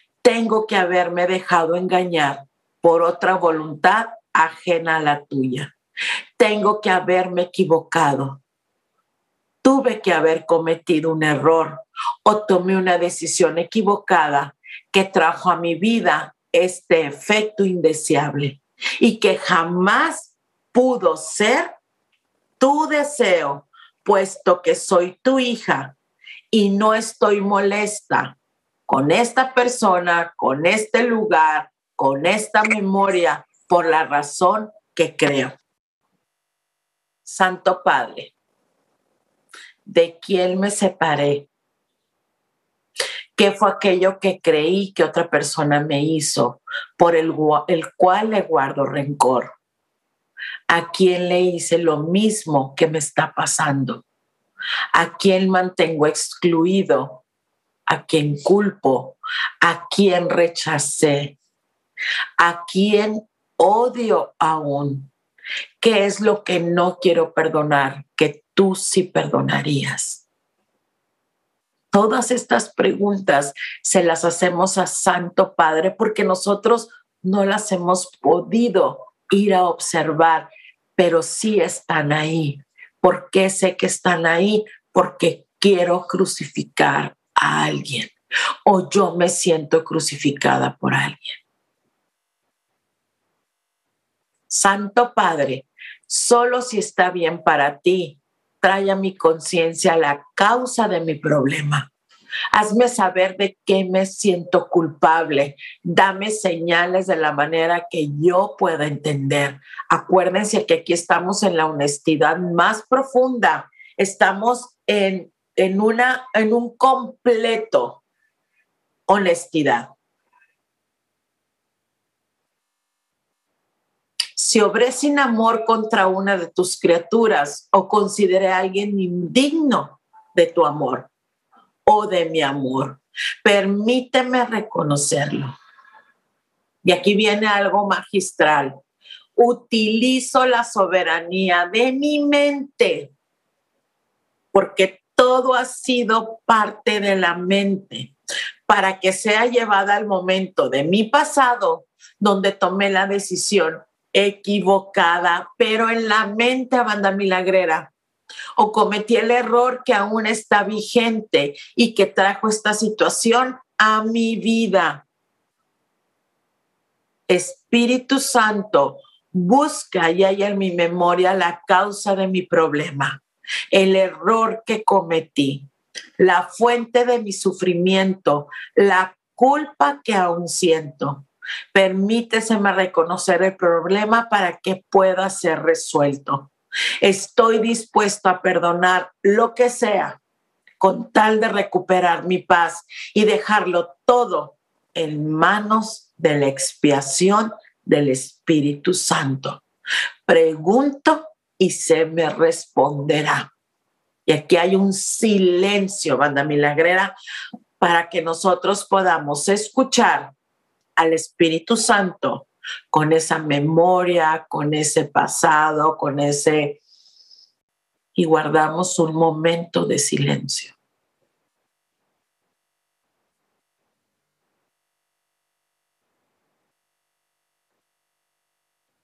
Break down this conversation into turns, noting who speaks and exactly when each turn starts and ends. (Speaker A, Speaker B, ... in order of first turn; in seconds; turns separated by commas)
Speaker A: 0.2-5.7, Speaker A: 6.4-8.4, Speaker A: 9.6-21.7, Speaker A: 22.6-25.9, Speaker A: 26.5-28.4, Speaker A: 28.9-35.5, Speaker A: 37.2-38.3, Speaker A: 39.9-41.5, Speaker A: 43.4-49.5, Speaker A: 50.7-54.0, Speaker A: 54.9-57.2, Speaker A: 57.9-61.4, Speaker A: 62.4-65.1, Speaker A: 65.8-70.2, Speaker A: 71.9-88.1, Speaker A: 88.7-91.4, Speaker A: 94.5-101.9, Speaker A: 102.5-118.0, Speaker A: 119.1-119.9, Speaker A: 124.4-131.1, Speaker A: 131.8-135.5, Speaker A: 136.8-138.8, Speaker A: 139.3-143.1, Speaker A: 144.5-148.1, Speaker A: 148.7-157.9, Speaker A: 158.6-165.0, Speaker A: 167.3-175.7, Speaker A: 176.2-186.5, Speaker A: 187.0-190.2, Speaker A: 190.8-199.6, Speaker A: 200.3-203.5, Speaker A: 204.2-207.1, Speaker A: 207.8-210.3, Speaker A: 211.0-216.8, Speaker A: 218.1-220.7